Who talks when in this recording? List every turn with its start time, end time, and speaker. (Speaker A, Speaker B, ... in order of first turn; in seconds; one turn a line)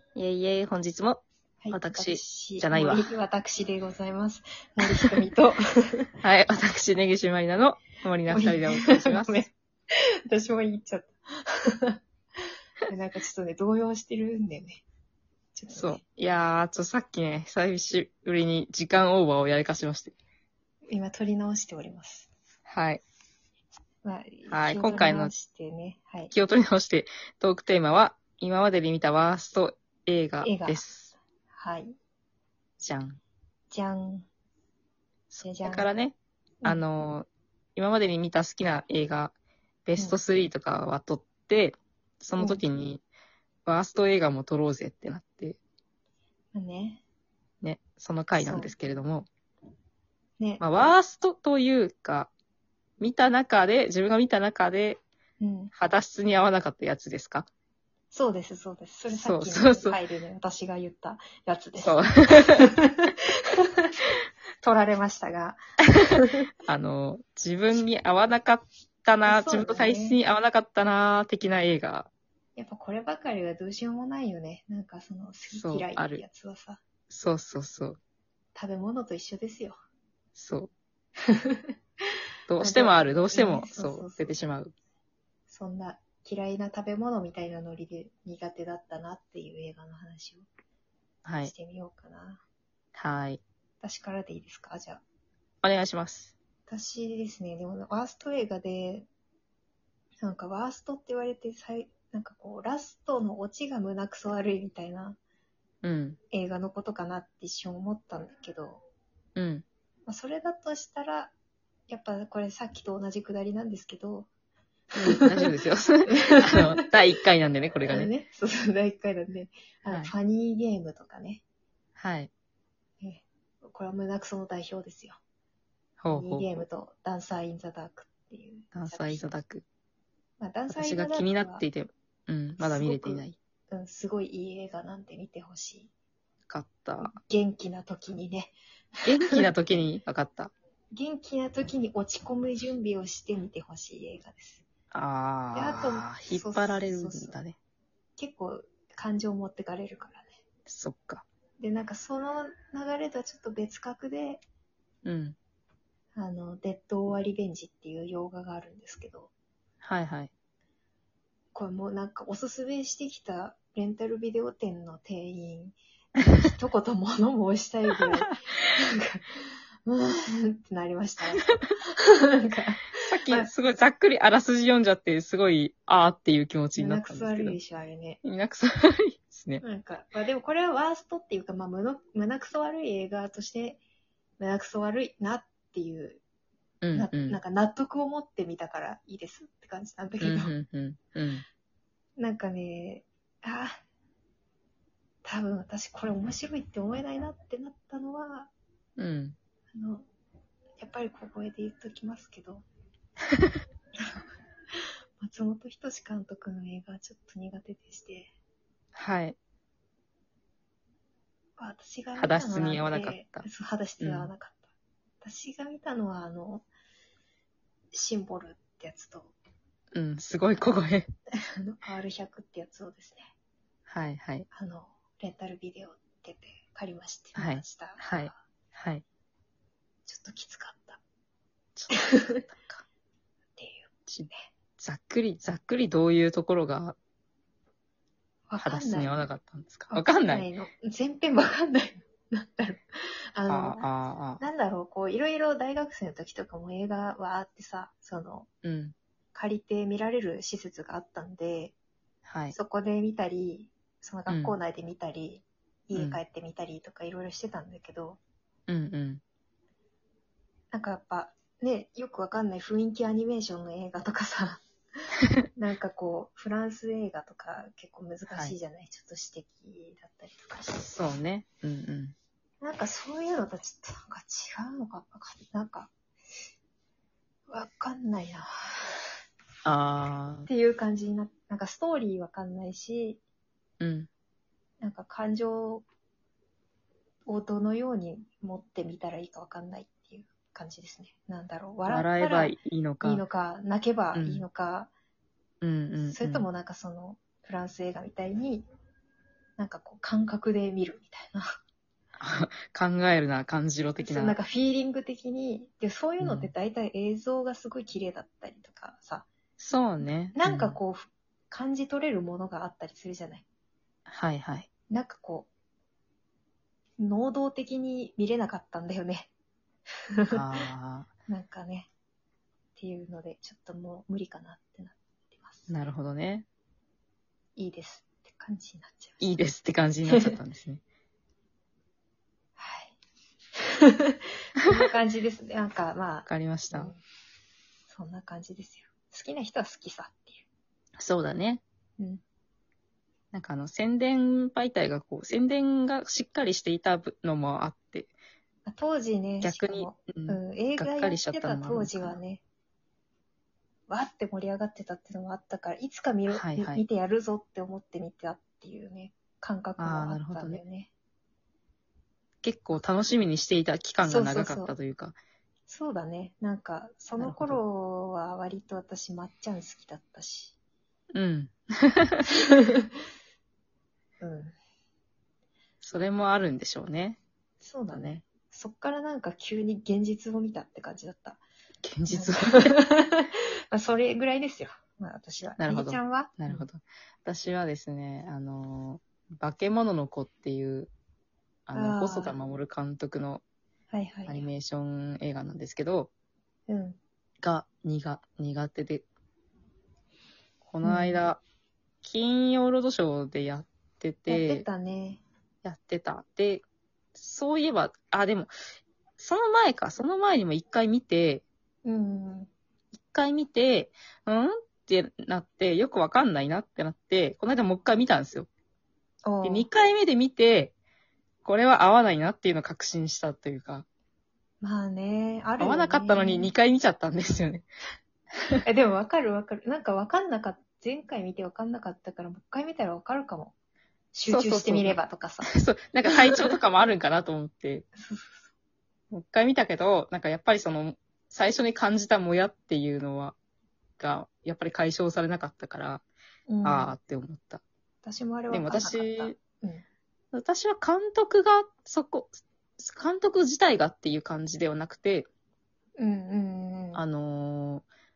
Speaker A: 0.1-3.1
Speaker B: 1.6-6.1
Speaker A: 6.2-9.5
Speaker B: 8.3-12.0
Speaker B: 12.9-14.8
Speaker B: 15.5-16.0
Speaker A: 15.7-20.1
Speaker B: 20.9-22.3
Speaker A: 22.7-23.0
Speaker B: 24.0-26.3
Speaker A: 24.5-25.3
Speaker A: 26.3-31.1
Speaker B: 30.4-30.9
Speaker B: 31.5-32.0
Speaker A: 32.8-33.2
Speaker B: 33.7-34.3
Speaker A: 35.3-39.3
Speaker B: 35.4-35.9
Speaker A: 39.8-43.0
Speaker B: 42.4-42.6
Speaker A: 43.6-45.6
Speaker B: 46.5-47.0
Speaker A: 47.6-49.3
Speaker B: 48.3-48.7
Speaker B: 50.4-50.7
Speaker A: 50.6-52.3
Speaker A: 53.0-55.0
Speaker B: 55.4-55.7
Speaker A: 55.7-57.5
Speaker B: 58.1-64.0
Speaker A: 59.1-60.0
Speaker A: 61.8-62.7
Speaker B: 64.6-66.5
Speaker A: 66.1-72.1
Speaker B: 69.2-70.2
Speaker B: 72.5-76.8
Speaker A: 75.5-76.2
Speaker A: 77.1-78.0
Speaker B: 78.5-79.8
Speaker A: 80.3-80.7
Speaker B: 81.3-81.7
Speaker A: 82.5-84.7
Speaker B: 82.6-84.3
Speaker B: 85.5-90.5
Speaker A: 91.2-91.5
Speaker B: 91.4-92.4
Speaker A: 92.9-93.4
Speaker B: 93.8-95.0
Speaker A: 95.6-96.3
Speaker B: 96.7-99.1
Speaker B: 100.2-105.2
Speaker A: 105.8-106.2
Speaker B: 106.3-108.8
Speaker A: 109.3-109.6
Speaker B: 110.1-111.3
Speaker B: 111.9-114.3
Speaker A: 114.9-118.1
Speaker B: 115.0-115.5
Speaker B: 116.1-116.8
Speaker B: 117.8-121.4
Speaker A: 119.9-120.1
Speaker A: 122.0-122.3
Speaker B: 123.0-125.2
Speaker A: 126.0-126.6
Speaker B: 126.1-129.3
Speaker A: 128.7-129.6
Speaker B: 130.4-131.6
Speaker A: 130.7-133.4
Speaker B: 132.6-135.9
Speaker A: 136.5-137.1
Speaker B: 137.0-139.5
Speaker A: 139.1-140.5
Speaker B: 140.9-144.6
Speaker A: 144.9-147.6
Speaker B: 145.5-147.3
Speaker B: 148.2-150.4
Speaker A: 150.7-151.2
Speaker B: 151.6-154.4
Speaker A: 155.0-155.3
Speaker B: 156.1-159.3
Speaker A: 159.8-160.3
Speaker B: 161.5-173.5
Speaker A: 173.0-177.6
Speaker B: 176.7-178.2
Speaker A: 178.2-179.6
Speaker B: 179.6-183.8
Speaker B: 184.4-186.2
Speaker A: 186.8-187.4
Speaker B: 186.9-190.5
Speaker A: 190.2-191.4
Speaker B: 192.2-193.8
Speaker B: 195.2-198.5
Speaker A: 199.0-199.3
Speaker B: 199.7-200.1
Speaker B: 200.8-202.6
Speaker B: 204.7-208.3
Speaker A: 208.9-209.3
Speaker B: 211.6-214.7
Speaker A: 212.2-213.4
Speaker A: 214.0-214.3
Speaker B: 215.2-216.7
Speaker B: 217.9-219.3
Speaker A: 219.9-221.1
Speaker B: 221.4-223.3
Speaker A: 223.9-224.5
Speaker B: 224.5-228.4
Speaker A: 227.3-229.0
Speaker B: 230.1-231.0
Speaker A: 231.8-232.8
Speaker B: 231.9-232.4
Speaker B: 233.6-234.4
Speaker A: 234.1-236.9
Speaker B: 238.5-239.2
Speaker A: 238.6-240.4
Speaker B: 239.9-243.9
Speaker A: 243.5-244.4
Speaker B: 244.4-248.5
Speaker A: 248.6-248.9
Speaker B: 249.3-251.7
Speaker A: 252.3-252.6
Speaker B: 252.5-258.2
Speaker A: 254.3-254.6
Speaker A: 255.9-256.2
Speaker A: 258.7-259.2
Speaker B: 260.7-264.6
Speaker B: 265.5-270.9
Speaker A: 268.3-268.5
Speaker A: 270.8-272.1
Speaker B: 272.6-275.9
Speaker B: 277.5-279.0
Speaker A: 279.6-280.5
Speaker B: 280.5-283.2
Speaker A: 283.8-284.1
Speaker B: 284.8-285.9
Speaker B: 287.2-294.9
Speaker A: 291.9-293.2
Speaker A: 294.1-294.4
Speaker A: 295.6-296.4
Speaker B: 296.0-298.6
Speaker B: 299.6-301.6
Speaker A: 302.2-304.4
Speaker B: 304.0-309.3
Speaker A: 306.2-306.5
Speaker A: 309.6-310.8
Speaker B: 310.3-313.4
Speaker A: 314.1-314.7
Speaker B: 314.9-315.5
Speaker B: 317.0-319.3
Speaker B: 320.2-320.6
Speaker A: 320.3-321.1
Speaker B: 321.3-321.9
Speaker B: 322.8-325.7
Speaker A: 325.7-326.4
Speaker B: 327.6-329.4
Speaker A: 329.2-330.8
Speaker B: 330.1-330.3
Speaker B: 332.6-332.9
Speaker B: 333.8-337.0
Speaker A: 336.2-336.9
Speaker B: 337.9-340.4
Speaker A: 341.0-341.6
Speaker A: 343.3-348.1
Speaker B: 348.6-352.4
Speaker A: 349.4-352.1
Speaker B: 353.9-360.9
Speaker A: 356.3-356.8
Speaker A: 359.8-360.6
Speaker A: 362.4-365.1
Speaker B: 364.0-364.7
Speaker B: 365.7-370.5
Speaker A: 367.2-367.6
Speaker A: 371.1-372.2
Speaker B: 372.6-373.0
Speaker B: 374.2-374.5
Speaker A: 375.8-377.2
Speaker B: 377.6-381.4
Speaker A: 377.9-378.2
Speaker A: 381.8-382.7
Speaker B: 382.1-386.6
Speaker A: 385.6-390.9
Speaker A: 391.7-393.4
Speaker B: 391.7-392.4
Speaker B: 393.9-394.4
Speaker A: 394.3-396.1
Speaker B: 396.7-397.0
Speaker A: 397.4-399.0
Speaker A: 400.6-401.4
Speaker B: 400.8-401.2
Speaker A: 402.0-404.6
Speaker B: 404.3-405.2
Speaker A: 405.6-406.6
Speaker A: 407.1-408.5
Speaker A: 409.2-411.4
Speaker B: 411.8-412.5
Speaker A: 412.9-418.5
Speaker B: 419.2-419.7
Speaker A: 419.4-420.7
Speaker A: 421.4-423.9
Speaker B: 424.6-426.5
Speaker A: 425.6-427.6
Speaker B: 428.6-433.5
Speaker B: 434.1-435.5
Speaker A: 434.3-437.9
Speaker B: 436.1-436.5
Speaker B: 437.9-438.5
Speaker A: 439.1-443.4
Speaker A: 444.0-446.0
Speaker B: 446.5-446.9
Speaker A: 446.6-447.6
Speaker B: 448.0-449.8
Speaker A: 448.5-449.4
Speaker A: 450.3-455.3
Speaker B: 456.0-457.0
Speaker A: 456.9-457.9